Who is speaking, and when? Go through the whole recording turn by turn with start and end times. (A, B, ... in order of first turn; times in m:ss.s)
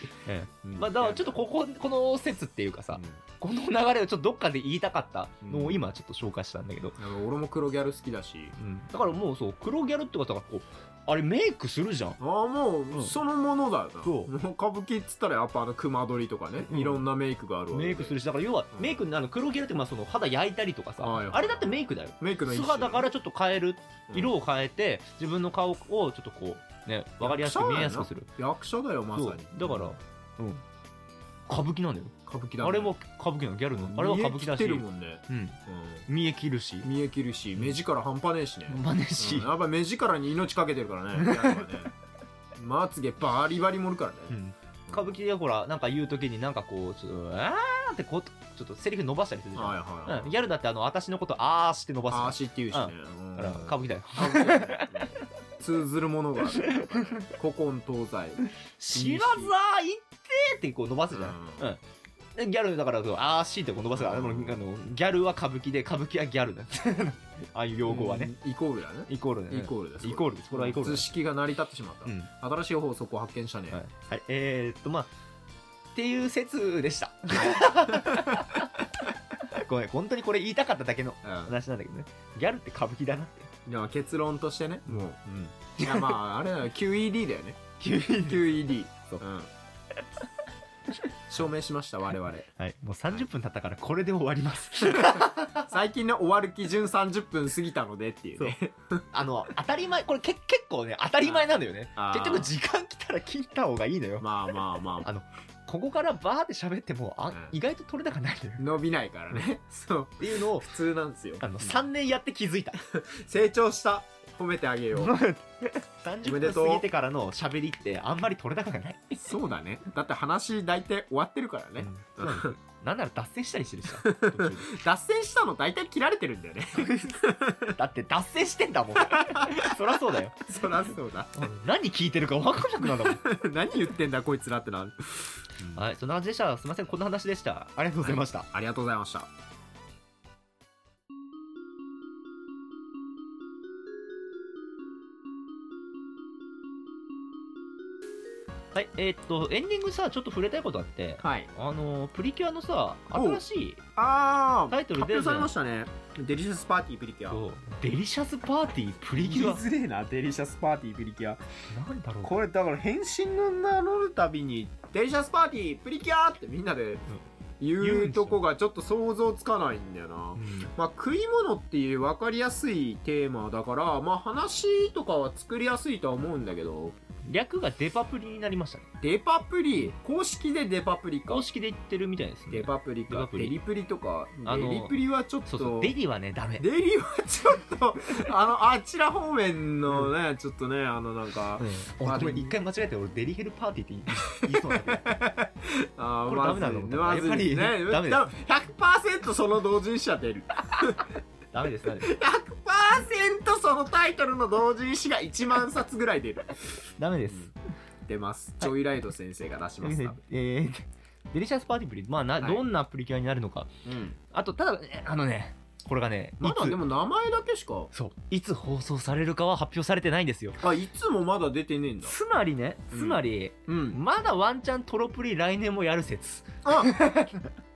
0:00.2-0:07.0 A
0:00.6-0:01.4 B
0:05.4-0:05.8 B
0:07.0-0:08.6 B
0:08.6-0:12.2 A
0:12.2-0:18.2 B
0:12.9-0:13.2 A
0:14.0-0:14.3 A
0:16.6-0:17.0 A
0:17.7-0:28.3 A
0:18.7-0:19.1 B
0:21.0-0:23.1 B
0:27.2-0:30.0 B
0:29.1-0:30.6 A
0:31.5-0:36.9 A
0:32.3-0:32.9 B
0:33.8-0:36.1 B
0:36.8-0:41.9 B
0:38.7-0:39.5 A
0:41.2-0:41.7 A
0:42.6-0:44.4 B
0:44.3-0:55.0 A
0:44.9-0:45.2 B
0:49.6-0:50.4 B
0:52.1-0:59.5 B
0:56.6-0:57.2 A
0:58.8-1:01.8 A
1:01.1-1:01.6 B
1:02.4-1:08.3 A
1:04.0-1:04.6 B
1:07.9-1:13.8 B
1:09.1-1:11.1 A
1:12.1-1:12.3 A
1:13.7-1:15.1 A
1:16.0-1:18.9 A
1:17.4-1:18.4 B
1:19.4-1:23.5 A
1:21.2-1:21.5 B
1:23.7-1:27.6 B
1:25.8-1:26.2 A
1:27.8-1:29.2 A
1:28.2-1:29.5 B
1:31.3-1:32.5 B
1:32.6-1:35.7 A
1:35.0-1:39.0 B
1:39.1-1:44.3 A
1:41.2-1:42.5 B
1:44.2-1:45.1 B
1:45.0-1:48.7 A
1:48.6-1:51.8 B
1:50.2-1:50.7 A
1:51.4-1:52.8 A
1:52.8-1:55.2 B
1:55.0-1:59.4 A
1:56.2-1:56.9 B
1:59.2-2:02.5 B
2:01.8-2:04.7 A
2:04.0-2:07.8 B
2:06.8-2:10.8 A
2:09.0-2:09.8 B
2:10.5-2:11.5 B
2:11.3-2:13.2 A
2:12.8-2:15.8 B
2:15.7-2:18.5 A
2:18.0-2:19.3 B
2:28.7-2:33.8 A
2:31.2-2:31.5 B
2:33.1-2:33.4 B
2:34.0-2:37.4 B
2:34.7-2:35.5 A
2:37.3-2:39.6 A
2:39.1-2:41.4 B
2:41.7-2:42.3 A
2:42.2-2:47.0 B
2:47.6-2:57.0 B
2:47.8-2:48.4 A
2:50.4-2:50.7 A
2:57.3-2:58.9 A
2:59.0-3:01.5 B
3:01.3-3:03.6 A
3:02.5-3:06.0 B
3:04.4-3:06.6 A
3:06.6-3:12.6 B
3:11.6-3:15.2 A
3:14.5-3:21.2 B
3:16.3-3:18.2 A
3:21.5-3:22.1 A
3:21.9-3:27.5 B
3:27.0-3:27.5 A
3:28.1-3:30.2 B
3:29.8-3:33.7 A
3:33.8-3:34.2 B
3:34.3-3:36.8 A
3:36.4-3:37.9 B
3:37.9-3:40.6 A
3:40.6-3:42.2 B
3:42.1-3:47.5 A
3:42.9-3:44.0 B
3:46.6-3:47.0 B